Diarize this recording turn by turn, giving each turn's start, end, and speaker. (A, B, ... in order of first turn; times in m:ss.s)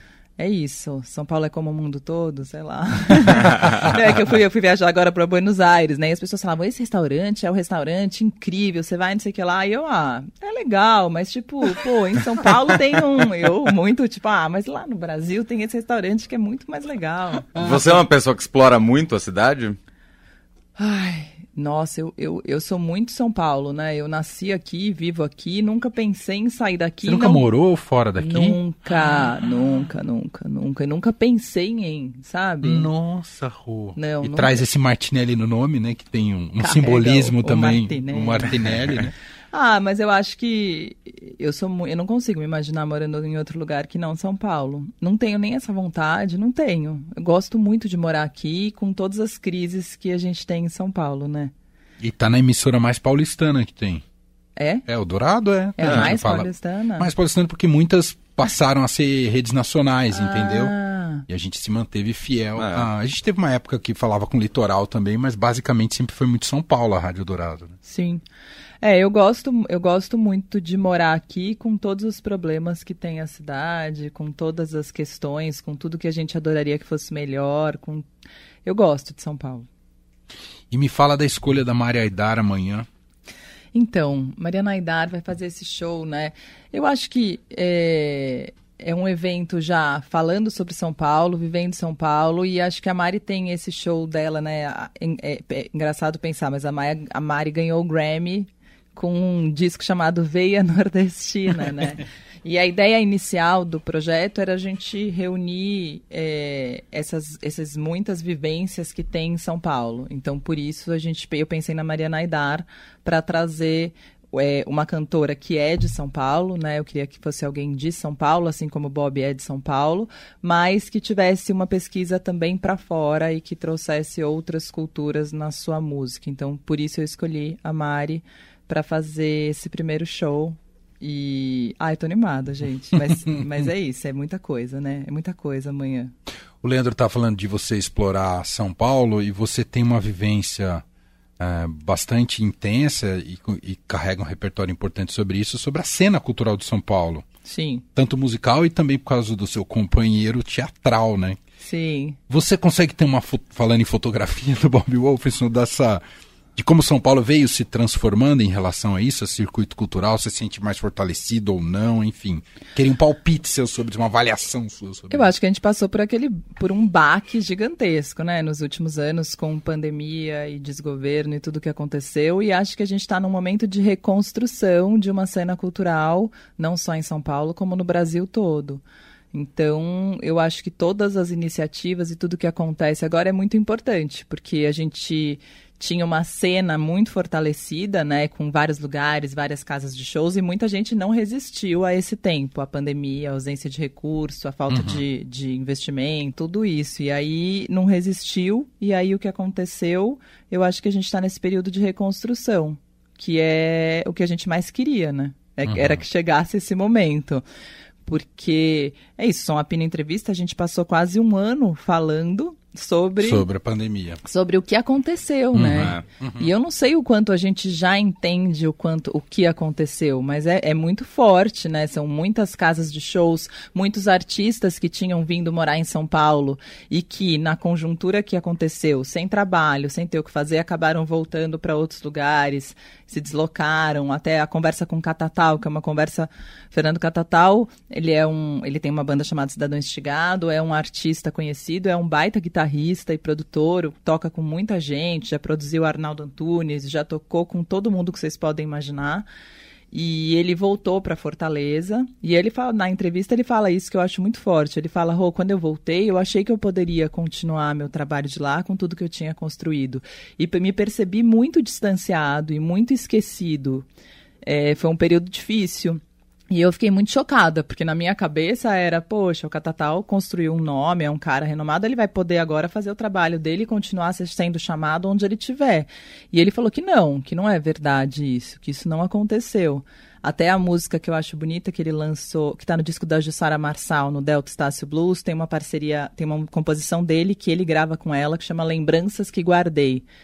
0:00.4-0:17.6 A
0:17.6-0:19.8 B
0:20.8-0:27.4 A
0:27.0-0:28.6 C
0:28.2-0:32.9 A
0:32.6-0:39.1 C
0:34.0-0:34.6 A
0:36.6-0:38.7 A
0:39.5-0:51.5 A
0:52.0-0:54.0 C
0:54.6-0:54.8 A
0:54.9-1:00.7 C
0:55.8-0:57.1 A
0:55.8-0:56.1 B
1:00.1-1:01.2 A
1:01.3-1:07.8 C
1:02.6-1:02.9 B
1:07.9-1:08.2 A
1:08.8-1:18.1 A
1:18.6-1:19.7 A
1:20.7-1:22.9 C
1:23.7-2:16.1 A
2:16.6-2:20.8 C
2:21.4-2:27.2 C
2:27.4-2:27.8 A
2:28.0-2:31.4 C
2:31.6-2:32.2 A
2:32.3-2:36.0 C
2:36.6-2:45.3 C
2:45.1-3:27.4 A
3:14.7-3:15.0 C
3:25.7-3:26.0 C
3:28.1-3:33.4 A
3:33.2-3:34.2 C
3:34.2-4:09.3 A
3:35.5-3:36.5 C
3:35.8-3:36.0 B
4:09.9-4:23.9 A
4:24.4-4:50.0 A